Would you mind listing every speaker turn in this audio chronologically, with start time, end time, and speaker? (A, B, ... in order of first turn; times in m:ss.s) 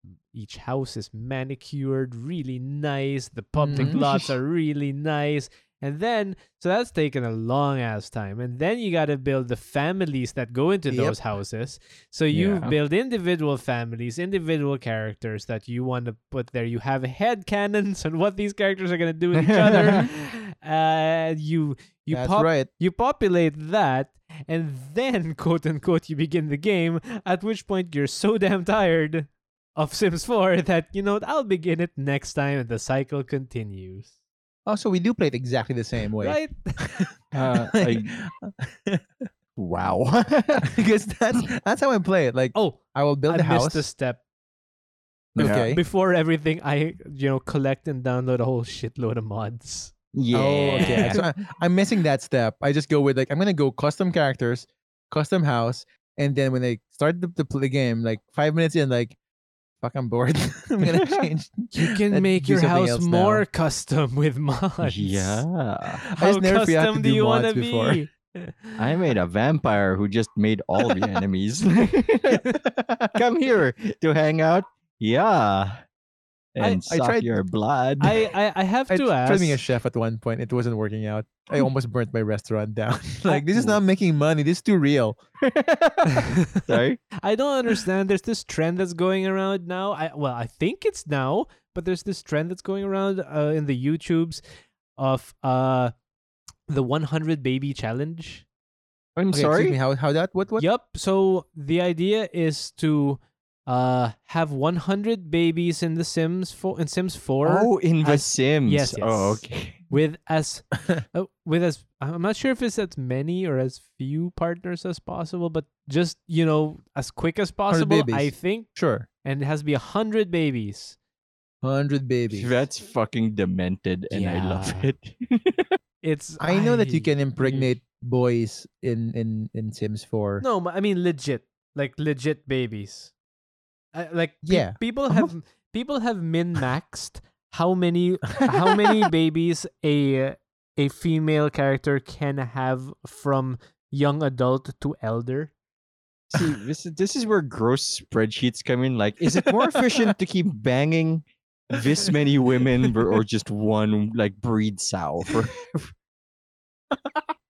0:00.3-0:34.1 A
0:03.6-0:04.0 B
0:03.7-0:04.0 C
0:10.9-0:11.2 B
0:12.3-0:12.7 C
0:19.4-0:20.1 C
0:19.8-0:20.0 B
0:22.1-0:22.7 B
0:34.6-0:39.0 B
0:36.2-0:36.9 A
0:37.3-0:38.1 C
0:39.6-0:40.7 C
0:40.6-0:43.9 B
0:42.5-0:44.2 A
0:45.3-0:45.7 C
0:45.4-0:45.8 B
0:45.4-0:49.9 A
0:50.1-0:51.2 C
0:50.3-0:59.2 B
0:50.6-0:51.2 A
0:59.8-1:03.4 B
1:00.8-1:01.3 C
1:01.7-1:05.4 A
1:04.8-1:06.0 C
1:06.0-1:08.0 B
1:06.2-1:08.8 A
1:08.8-1:12.4 C
1:12.6-1:13.2 B
1:13.1-1:15.8 C
1:16.5-1:18.2 C
1:16.9-1:17.3 B
1:18.0-1:19.6 A
1:18.9-1:25.2 B
1:23.5-1:23.8 C
1:25.4-1:27.0 C
1:27.2-1:34.4 A
1:35.0-1:35.9 A
1:36.7-1:38.4 A
1:39.2-1:39.8 C
1:39.3-1:40.7 B
1:40.6-1:58.7 A
1:47.4-1:49.8 C
1:57.7-1:59.1 B
1:59.2-2:01.0 A
2:01.6-2:02.5 B
2:02.3-2:05.8 C
2:04.1-2:04.9 A
2:06.0-2:07.7 A
2:06.4-2:10.4 B
2:10.4-2:13.1 A
2:13.9-2:25.5 A
2:14.4-2:14.8 B
2:26.3-2:35.9 C
2:29.4-2:30.1 B
2:36.9-2:37.2 B